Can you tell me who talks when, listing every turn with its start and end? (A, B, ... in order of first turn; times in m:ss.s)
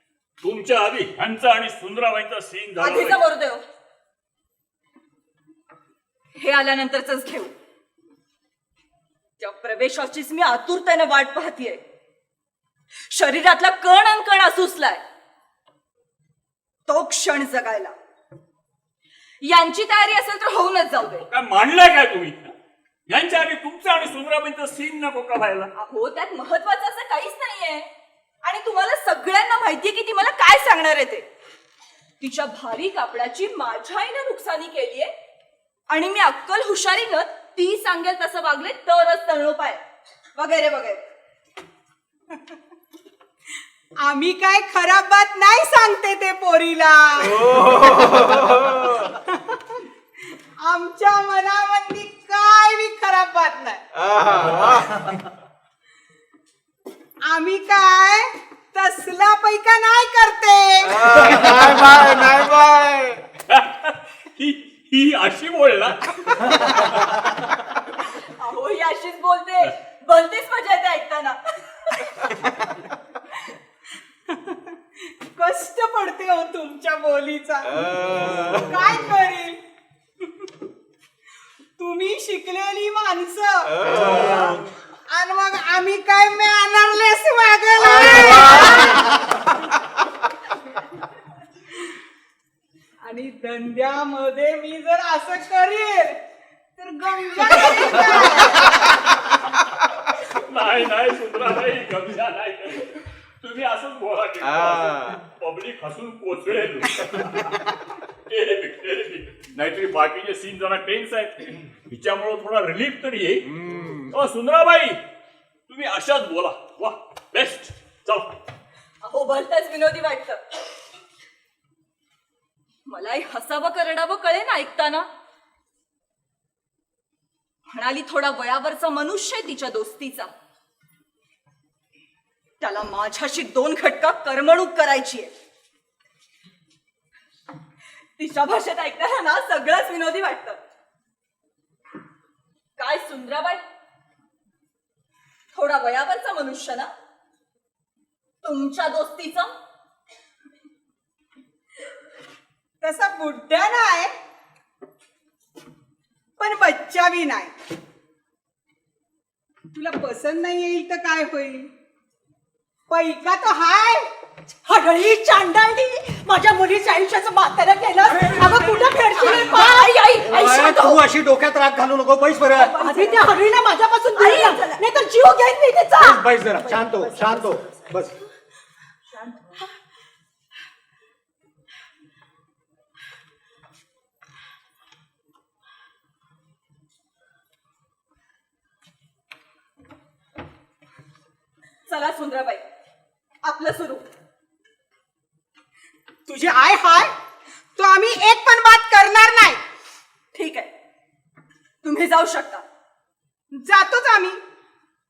0:00.4-0:03.2 A
0:02.8-0:03.6 B
0:06.4-0:07.5 B
0:09.4-0:11.8 B
0:13.1-0:15.0 B
0:16.9-0:17.9 B
0:19.4-0:21.2 B
0:21.2-0:22.5 A
0:23.1-0:25.7 A
0:25.7-0:27.9 B
0:28.4-0:31.2 B
0:32.2-0:35.1 B
0:35.9-0:39.8 B
0:40.3-0:41.1 B
0:44.0-0:48.0 C
0:47.2-0:49.1 D
0:49.3-0:49.8 C
0:50.6-0:53.8 C
0:53.9-0:55.1 D
0:57.2-1:01.1 C
1:00.8-1:03.2 D
1:03.5-1:07.2 A
1:08.2-1:12.3 B
1:14.3-1:14.6 C
1:15.3-1:17.8 C
1:17.6-1:19.1 D
1:18.6-1:19.6 C
1:21.8-1:23.8 C
1:23.7-1:24.6 D
1:23.8-1:24.6 E
1:25.1-1:29.1 C
1:27.8-1:29.0 D
1:33.0-1:36.2 C
1:36.8-1:38.8 C
1:40.3-1:55.0 A
1:44.4-1:45.2 D
1:53.4-1:54.1 D
1:55.7-1:58.4 A
1:59.0-2:00.4 B
2:02.9-2:05.1 B
2:07.7-2:10.3 B
2:12.6-2:15.3 B
2:18.2-2:20.6 B
2:22.8-2:23.6 B
2:25.5-2:26.9 B
2:28.4-2:29.5 B
2:32.8-2:34.1 C
2:36.4-2:37.5 C
2:39.7-2:41.7 C
2:42.9-2:44.1 C
2:44.6-2:49.9 C
2:48.1-2:49.2 E
2:48.7-2:51.0 B
2:50.2-2:52.7 E
2:52.6-2:53.4 B
2:52.7-2:56.1 C
2:54.2-2:54.8 B
2:56.0-2:58.1 E
2:56.9-2:57.4 C
3:11.9-3:12.6 B
3:13.4-3:14.1 B
3:16.3-3:17.1 C
3:17.8-3:19.6 C
3:20.3-3:20.7 B
3:21.8-3:22.6 B
3:23.5-3:24.4 C